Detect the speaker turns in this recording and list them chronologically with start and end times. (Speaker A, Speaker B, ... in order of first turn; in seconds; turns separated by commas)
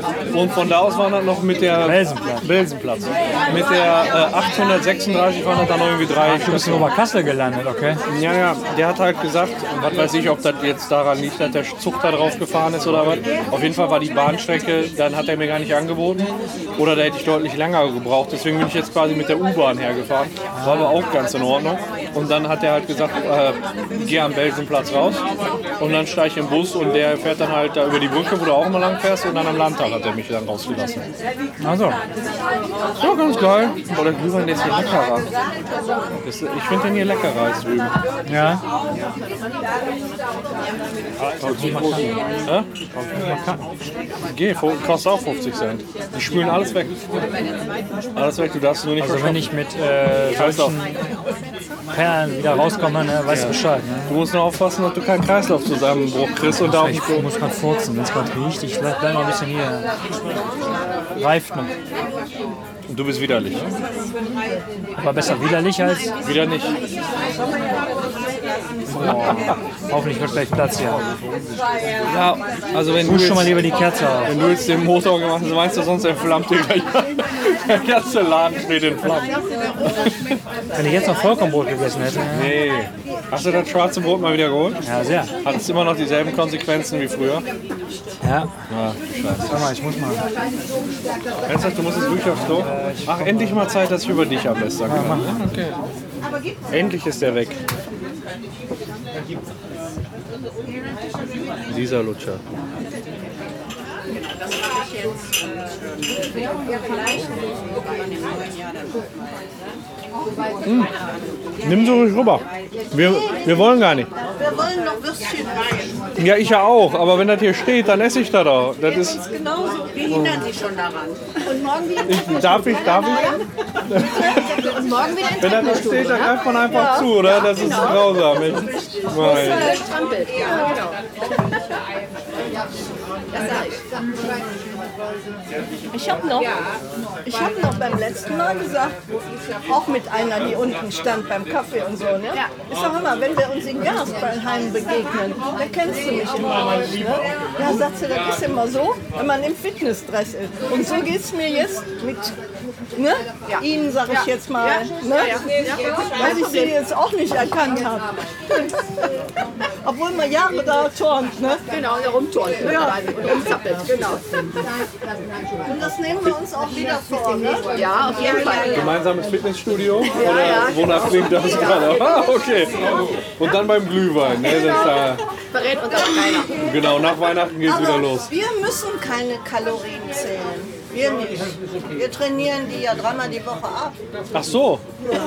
Speaker A: 0.3-6.9, Speaker B: 1.8-2.5, Speaker B: 6.2-8.0, Speaker A: 8.1-25.2, Speaker B: 20.5-21.0, Speaker A: 25.8-31.1, Speaker B: 31.6-32.0, Speaker A: 33.0-35.3, Speaker A: 36.2-38.0, Speaker B: 38.3-38.6, Speaker B: 41.2-43.6, Speaker A: 41.4-42.7, Speaker A: 44.2-47.0, Speaker A: 48.1-49.5, Speaker B: 49.0-51.1, Speaker A: 50.3-50.8, Speaker B: 51.9-54.2, Speaker A: 53.3-57.3, Speaker B: 56.5-59.9, Speaker B: 61.2-61.7, Speaker A: 62.9-63.8, Speaker B: 65.0-66.2, Speaker A: 66.2-66.8, Speaker A: 68.9-69.5, Speaker B: 68.9-71.0, Speaker A: 72.1-79.3, Speaker B: 73.0-74.4, Speaker A: 79.9-80.3, Speaker B: 80.8-82.6, Speaker A: 82.3-84.8, Speaker B: 84.8-85.3, Speaker A: 85.4-87.5, Speaker B: 88.2-88.5, Speaker A: 88.7-89.8, Speaker B: 89.5-90.2, Speaker A: 91.5-95.8, Speaker B: 92.3-93.7, Speaker B: 94.8-95.4, Speaker A: 96.7-97.6, Speaker A: 101.7-102.4, Speaker A: 110.6-110.9, Speaker A: 111.6-114.1, Speaker C: 114.5-115.5, Speaker A: 116.2-119.2, Speaker A: 120.1-120.5, Speaker C: 121.7-123.4, Speaker A: 122.0-124.7, Speaker D: 124.9-128.2, Speaker A: 125.4-129.8, Speaker D: 129.1-131.6, Speaker D: 133.3-133.8, Speaker C: 135.9-136.4, Speaker C: 137.3-139.0, Speaker C: 139.7-152.4, Speaker C: 152.9-158.9, Speaker D: 153.5-156.8, Speaker C: 159.8-161.6, Speaker D: 161.7-164.3, Speaker C: 165.7-168.8, Speaker D: 167.8-168.9, Speaker A: 168.7-172.8, Speaker D: 170.1-172.0, Speaker C: 170.5-172.1, Speaker A: 173.4-175.2, Speaker D: 174.4-176.5, Speaker A: 176.6-178.3, Speaker C: 177.6-184.0, Speaker A: 184.3-184.8